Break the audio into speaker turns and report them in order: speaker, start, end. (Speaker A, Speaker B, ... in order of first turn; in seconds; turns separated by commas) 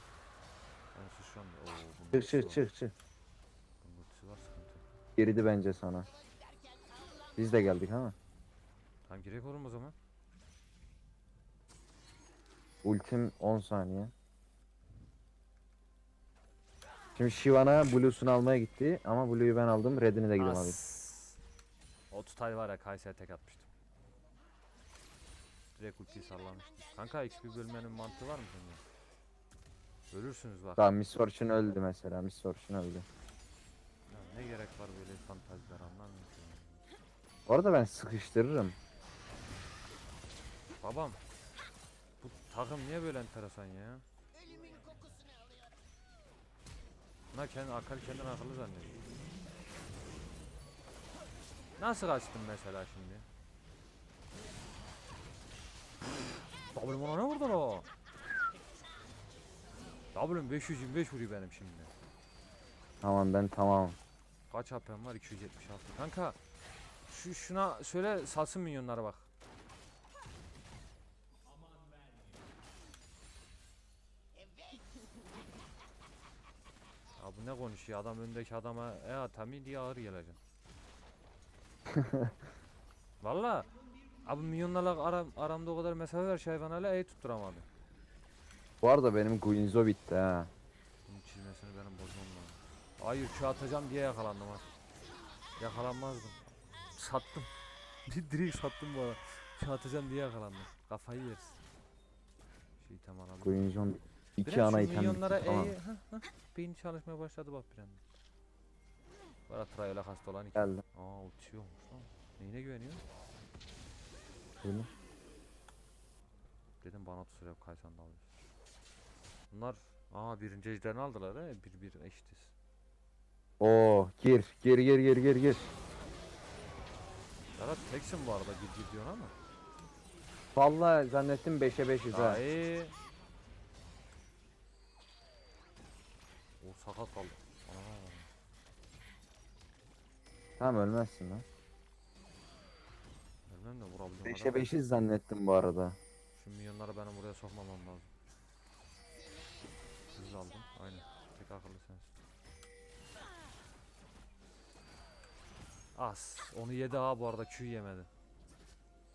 Speaker A: 0.9-2.6, Speaker B: 2.1-2.9, Speaker A: 3.8-4.8, Speaker B: 5.2-6.1, Speaker B: 7.3-8.2, Speaker A: 9.0-9.9, Speaker B: 12.8-14.1, Speaker B: 17.1-20.8, Speaker A: 20.4-21.4, Speaker A: 22.1-23.7, Speaker A: 25.8-28.8, Speaker A: 30.1-30.9, Speaker B: 30.8-33.0, Speaker A: 34.1-36.8, Speaker B: 37.5-38.8, Speaker A: 40.8-41.2, Speaker A: 42.2-44.0, Speaker A: 47.3-49.0, Speaker A: 51.8-53.2, Speaker A: 56.7-57.9, Speaker A: 60.1-61.9, Speaker B: 63.0-64.0, Speaker A: 64.5-66.4, Speaker A: 67.1-69.3, Speaker A: 77.2-80.4, Speaker B: 81.9-82.3, Speaker A: 83.2-83.7, Speaker A: 84.2-87.7, Speaker B: 88.8-90.5, Speaker A: 91.0-94.7, Speaker A: 95.6-97.5, Speaker A: 98.0-101.6, Speaker A: 102.8-103.7, Speaker B: 103.4-105.7, Speaker A: 104.4-108.0, Speaker A: 109.5-113.0, Speaker B: 110.5-110.8, Speaker B: 114.6-114.9, Speaker A: 116.8-118.3, Speaker A: 119.5-122.5, Speaker B: 123.6-125.7, Speaker A: 127.5-129.3, Speaker B: 130.5-132.4, Speaker A: 132.1-132.9, Speaker A: 136.6-138.3, Speaker B: 140.6-141.4, Speaker A: 143.5-144.7, Speaker B: 144.2-146.0, Speaker A: 146.3-148.1, Speaker A: 150.1-152.1, Speaker A: 155.9-158.1